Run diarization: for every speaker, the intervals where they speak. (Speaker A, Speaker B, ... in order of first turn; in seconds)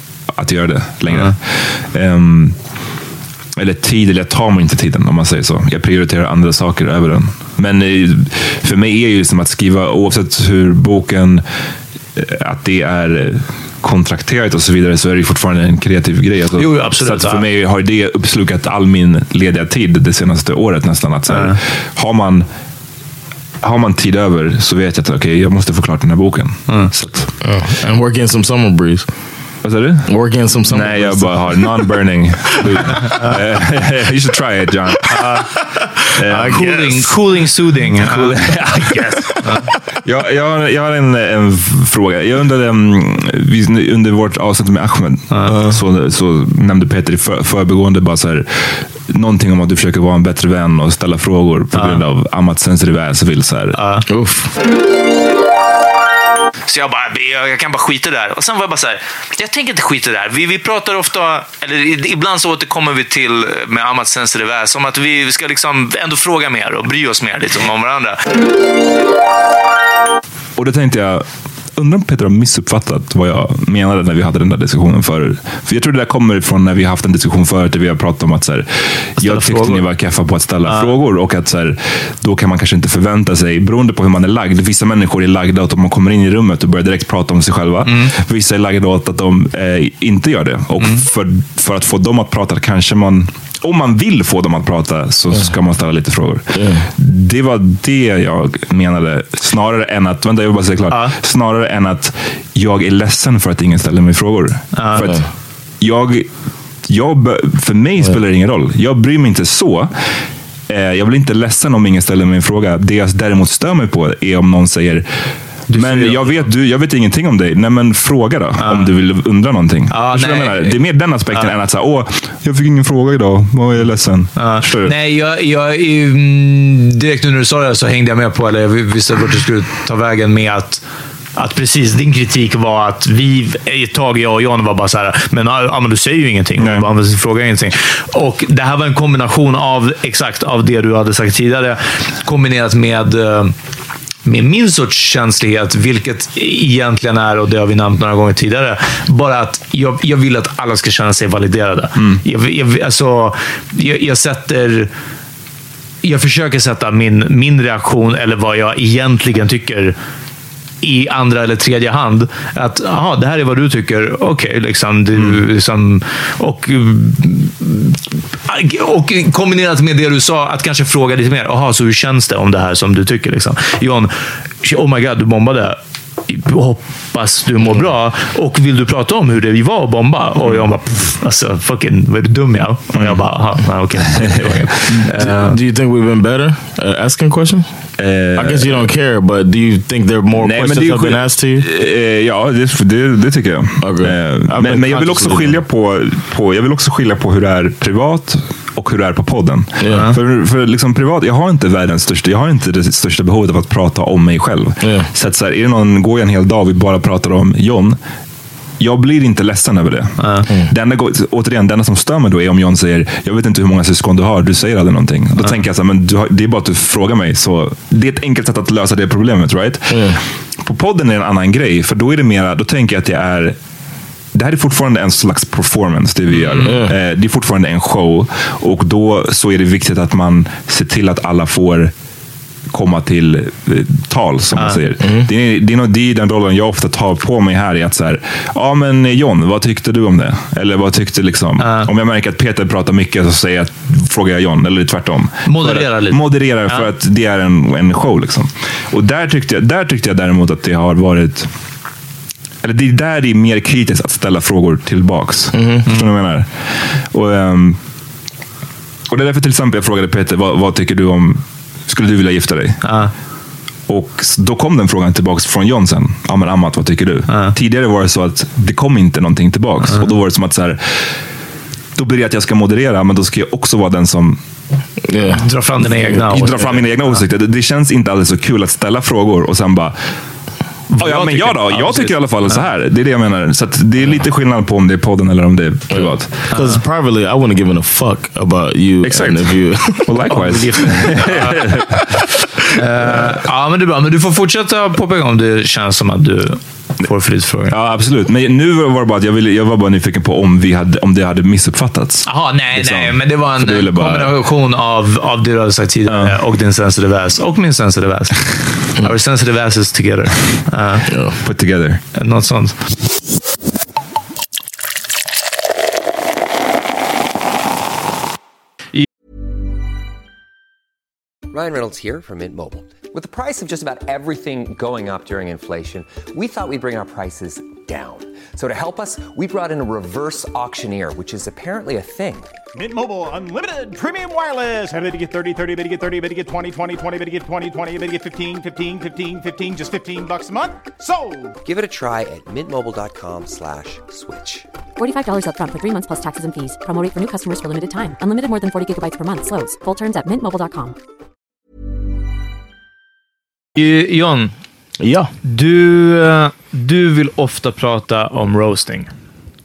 Speaker A: 0.3-2.6, 3.6-11.4, 12.2-22.5, 23.6-27.3, 29.6-30.1, 30.7-35.3, 36.1-36.7, 38.0-39.3, 40.0-48.5, 49.1-53.8, 70.6-105.2, 105.8-106.3, 106.9-109.9, 110.7-115.1, 115.7-124.9, 136.6-136.9, 182.9-183.2, 184.1-185.1, 188.0-188.8, 190.4-208.0, 208.8-223.6, 224.3-231.9, 232.7-251.5, 252.6-257.8, 259.1-262.8, 263.9-270.8, 272.0-274.4, 276.3-280.0, 281.0-286.5, 289.0-292.2, 297.7-304.4, 306.1-306.4, 311.4-312.0
Speaker B: 1.1-1.3, 16.6-17.4, 21.3-21.6, 35.1-35.5, 36.4-39.7, 51.7-52.0, 53.8-54.0, 56.7-68.2, 79.2-79.9, 80.7-80.9, 87.8-88.1, 104.7-105.1, 115.7-116.4, 118.6-118.9, 119.9-120.8, 124.4-130.8, 131.4-143.5, 144.3-154.9, 156.0-160.0, 160.8-174.1, 174.6-185.6, 199.9-200.2, 210.2-210.5, 226.3-226.7, 241.6-241.9, 245.5-246.9, 262.8-263.1, 267.3-267.6, 275.3-276.7, 280.9-282.6, 286.5-286.8, 290.3-291.7, 292.7-297.7, 302.3-308.3, 309.0-311.1, 312.1-312.8, 353.8-354.5, 355.4-359.1
Speaker C: 27.4-29.1, 30.1-31.9, 32.6-33.2, 35.8-37.2, 45.5-45.8, 54.1-54.5, 96.5-96.9, 105.0-105.2, 185.1-187.7, 188.3-191.7, 193.8-195.6, 199.8-200.1, 204.8-205.1, 219.9-220.2, 226.6-226.9, 235.0-235.3, 255.5-255.8, 275.0-275.5, 285.9-290.3, 311.1-311.4, 355.0-355.3
Speaker D: 321.5-332.5, 341.6-344.7
Speaker E: 332.7-341.6
Speaker F: 345.0-351.0